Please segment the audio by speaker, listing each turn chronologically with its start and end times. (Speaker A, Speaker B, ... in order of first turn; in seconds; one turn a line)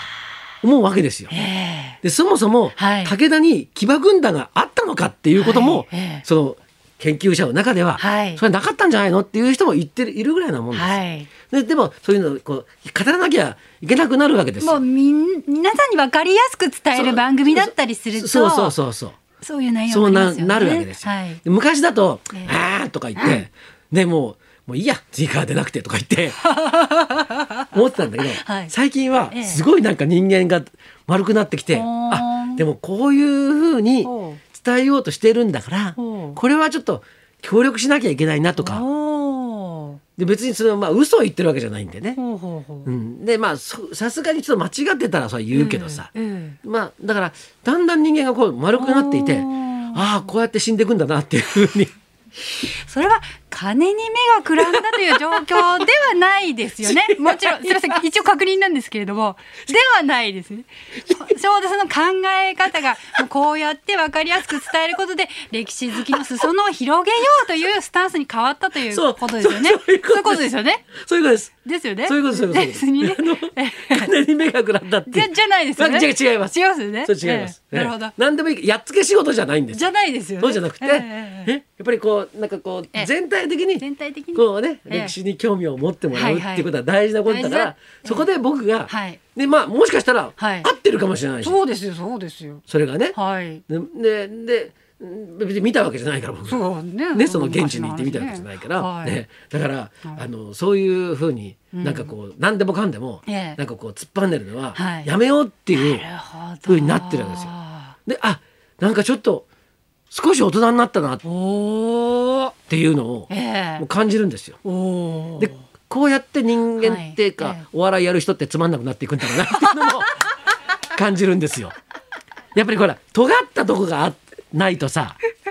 Speaker A: 0.6-1.3
Speaker B: 1.3-2.0
Speaker A: 2.0-14.8
Speaker B: 2.8-3.1
Speaker B: 5.3-6.2
Speaker B: 8.0-8.4
Speaker B: 10.7-11.3
Speaker B: 14.6-18.8
Speaker A: 16.9-19.2
Speaker B: 19.4-21.4
Speaker A: 19.9-26.4
Speaker B: 23.2-23.4
Speaker B: 26.4-27.7
Speaker A: 27.7-38.8
Speaker B: 28.3-28.7
Speaker B: 29.3-29.6
Speaker B: 31.7-32.6
Speaker B: 34.0-34.4
Speaker B: 36.0-36.4
Speaker B: 38.6-40.0
Speaker A: 40.2-42.2
Speaker B: 42.1-42.9
Speaker A: 42.8-46.1
Speaker B: 45.5-46.6
Speaker A: 46.6-51.9
Speaker B: 48.7-50.3
Speaker B: 52.6-70.9
Speaker A: 54.7-55.7
Speaker A: 56.8-58.0
Speaker A: 68.9-71.5
Speaker B: 71.6-74.1
Speaker A: 72.0-76.5
Speaker B: 75.1-78.1
Speaker A: 77.0-79.9
Speaker B: 79.7-81.5
Speaker A: 80.4-83.8
Speaker B: 83.8-85.1
Speaker A: 84.3-91.6
Speaker B: 86.1-86.7
Speaker B: 87.3-88.3
Speaker B: 88.9-89.2
Speaker B: 90.4-90.7
Speaker B: 91.4-92.6
Speaker A: 92.7-93.2
Speaker B: 93.1-93.6
Speaker A: 93.7-106.0
Speaker B: 96.5-99.2
Speaker B: 101.7-102.1
Speaker B: 103.2-103.6
Speaker B: 104.8-105.1
Speaker B: 105.7-108.0
Speaker A: 106.7-107.5
Speaker A: 108.0-109.5
Speaker A: 110.1-111.2
Speaker B: 111.2-112.5
Speaker A: 112.7-114.6
Speaker B: 113.3-113.8
Speaker B: 114.6-115.6
Speaker A: 115.4-120.2
Speaker B: 116.8-117.6
Speaker B: 119.4-120.0
Speaker A: 120.9-121.8
Speaker A: 122.5-125.2